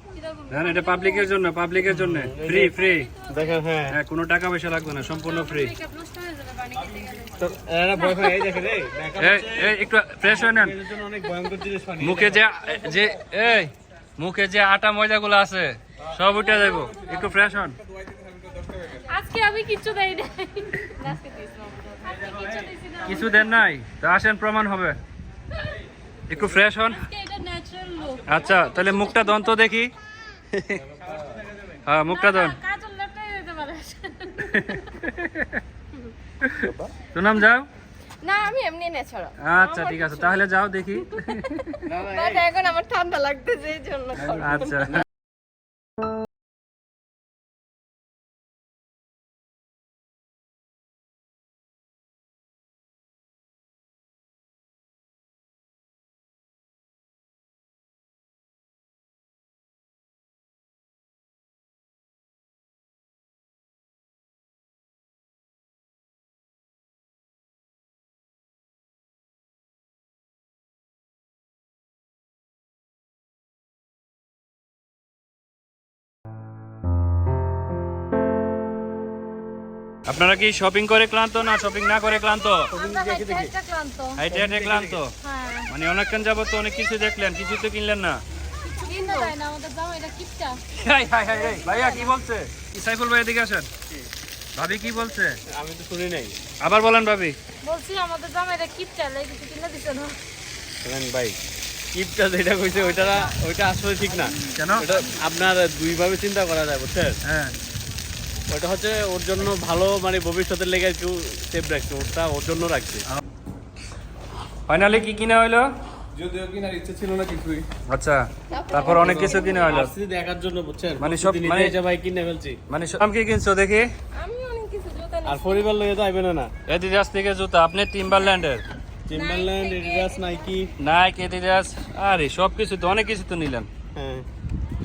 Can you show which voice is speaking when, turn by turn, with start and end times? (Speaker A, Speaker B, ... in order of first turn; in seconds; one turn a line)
Speaker A: 0.2-1.3
Speaker B: 0.5-3.1
Speaker C: 1.9-4.0
Speaker B: 3.9-5.7
Speaker A: 5.3-7.3
Speaker C: 7.4-12.4
Speaker B: 9.2-10.8
Speaker B: 12.0-17.8
Speaker A: 16.5-16.9
Speaker D: 16.7-19.1
Speaker A: 19.1-21.1
Speaker E: 21.0-22.3
Speaker A: 22.1-23.5
Speaker B: 23.1-25.0
Speaker B: 26.3-27.1
Speaker A: 27.0-28.4
Speaker B: 28.3-29.9
Speaker B: 30.5-30.8
Speaker B: 31.9-32.6
Speaker A: 32.1-34.6
Speaker B: 34.4-35.6
Speaker B: 36.4-37.7
Speaker C: 36.6-36.9
Speaker E: 38.2-40.4
Speaker B: 39.4-41.9
Speaker C: 41.9-42.5
Speaker E: 42.0-44.9
Speaker B: 44.2-45.0
Speaker B: 80.1-82.7
Speaker A: 82.7-84.2
Speaker C: 82.7-83.5
Speaker B: 84.2-85.1
Speaker C: 84.3-85.0
Speaker A: 85.2-85.7
Speaker B: 85.7-88.2
Speaker A: 88.6-90.6
Speaker E: 88.9-89.3
Speaker B: 90.7-93.7
Speaker A: 91.4-92.1
Speaker B: 94.5-95.4
Speaker C: 95.5-96.3
Speaker B: 96.6-97.4
Speaker A: 97.6-100.2
Speaker C: 100.8-101.4
Speaker C: 101.9-107.2
Speaker B: 104.5-104.9
Speaker B: 107.2-107.5
Speaker C: 108.5-113.1
Speaker B: 114.7-115.7
Speaker D: 116.2-117.7
Speaker B: 117.9-119.9
Speaker E: 118.5-119.8
Speaker C: 118.8-122.6
Speaker D: 119.0-119.4
Speaker B: 121.0-121.8
Speaker B: 122.7-123.9
Speaker E: 124.2-125.7
Speaker C: 125.3-126.5
Speaker B: 126.7-128.6
Speaker C: 129.1-130.7
Speaker E: 129.1-130.2
Speaker B: 130.8-133.7
Speaker C: 133.9-134.3